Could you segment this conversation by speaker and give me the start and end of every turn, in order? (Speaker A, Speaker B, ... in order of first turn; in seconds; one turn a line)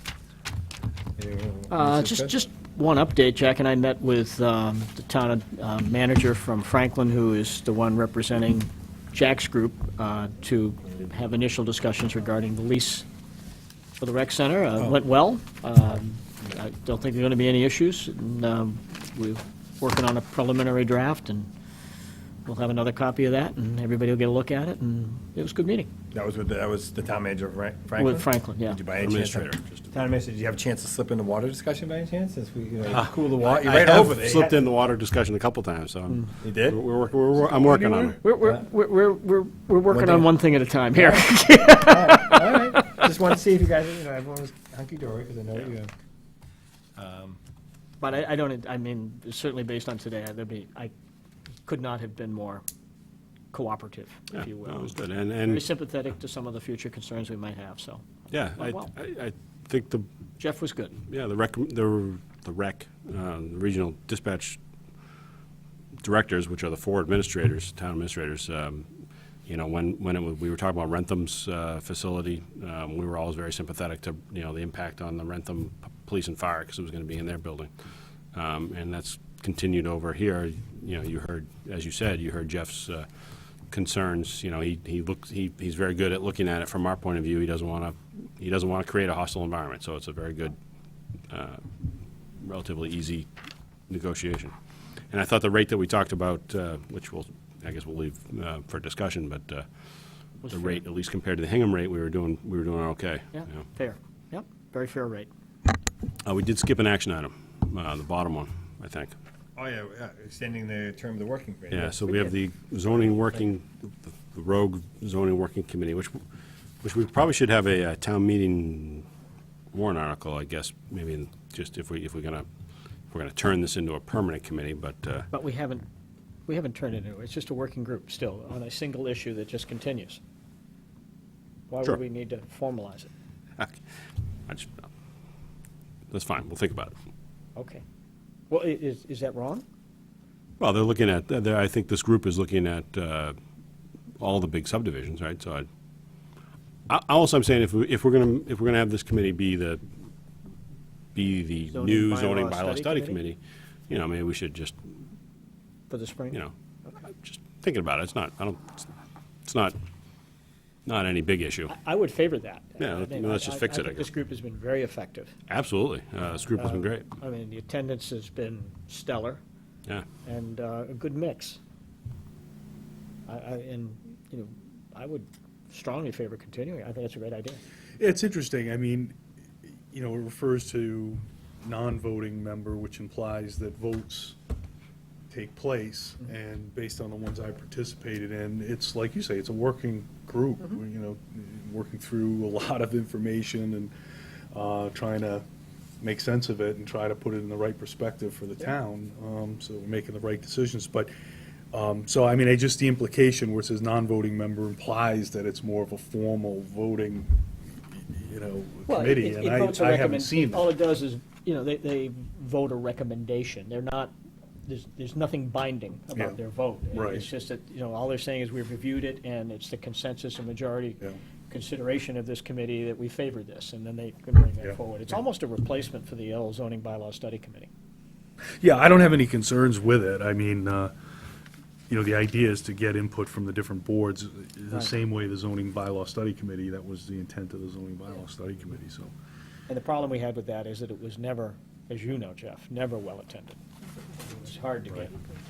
Speaker A: 1.1-2.4
Speaker B: 1.7-13.1
Speaker B: 14.0-21.5
Speaker A: 14.8-15.0
Speaker B: 22.4-25.9
Speaker A: 26.1-34.6
Speaker B: 27.9-28.8
Speaker C: 28.9-29.9
Speaker C: 32.9-38.2
Speaker A: 36.4-36.8
Speaker A: 37.6-38.6
Speaker B: 38.2-42.6
Speaker A: 39.9-40.3
Speaker A: 40.9-45.9
Speaker A: 47.0-47.4
Speaker B: 48.0-50.9
Speaker B: 51.6-52.6
Speaker B: 53.5-58.0
Speaker C: 54.3-55.7
Speaker C: 58.3-60.1
Speaker B: 58.6-58.9
Speaker B: 60.4-61.0
Speaker C: 61.0-64.6
Speaker C: 66.0-68.9
Speaker C: 69.5-77.7
Speaker C: 78.3-83.1
Speaker C: 83.7-90.5
Speaker C: 91.3-91.6
Speaker C: 92.3-93.3
Speaker C: 93.9-94.5
Speaker C: 95.1-99.7
Speaker B: 100.4-100.8
Speaker C: 100.5-103.6
Speaker B: 103.3-105.3
Speaker C: 106.2-109.1
Speaker A: 109.5-112.3
Speaker C: 111.7-116.2
Speaker C: 116.8-119.0
Speaker C: 119.7-122.5
Speaker C: 123.1-125.3
Speaker B: 125.3-125.8
Speaker B: 126.5-130.2
Speaker B: 131.7-133.1
Speaker C: 134.5-134.9
Speaker C: 136.1-136.9
Speaker B: 137.6-137.8
Speaker B: 138.5-139.6
Speaker C: 140.6-143.3
Speaker C: 144.2-145.7
Speaker C: 146.9-149.8
Speaker C: 151.1-154.8
Speaker B: 151.7-153.2
Speaker B: 155.9-156.4
Speaker C: 157.1-158.9
Speaker C: 159.4-159.8
Speaker C: 160.8-161.7
Speaker B: 161.7-165.3
Speaker C: 162.8-164.1
Speaker C: 165.5-167.1
Speaker B: 166.6-169.4
Speaker B: 170.2-171.6
Speaker B: 173.3-177.6
Speaker D: 178.0-184.4
Speaker D: 185.3-193.9
Speaker D: 194.5-195.4
Speaker D: 196.0-201.1
Speaker D: 201.7-210.8
Speaker B: 208.9-214.1
Speaker B: 214.7-227.7
Speaker D: 216.9-217.3
Speaker D: 228.6-230.9
Speaker D: 231.9-239.1
Speaker B: 239.7-243.6
Speaker B: 244.2-245.1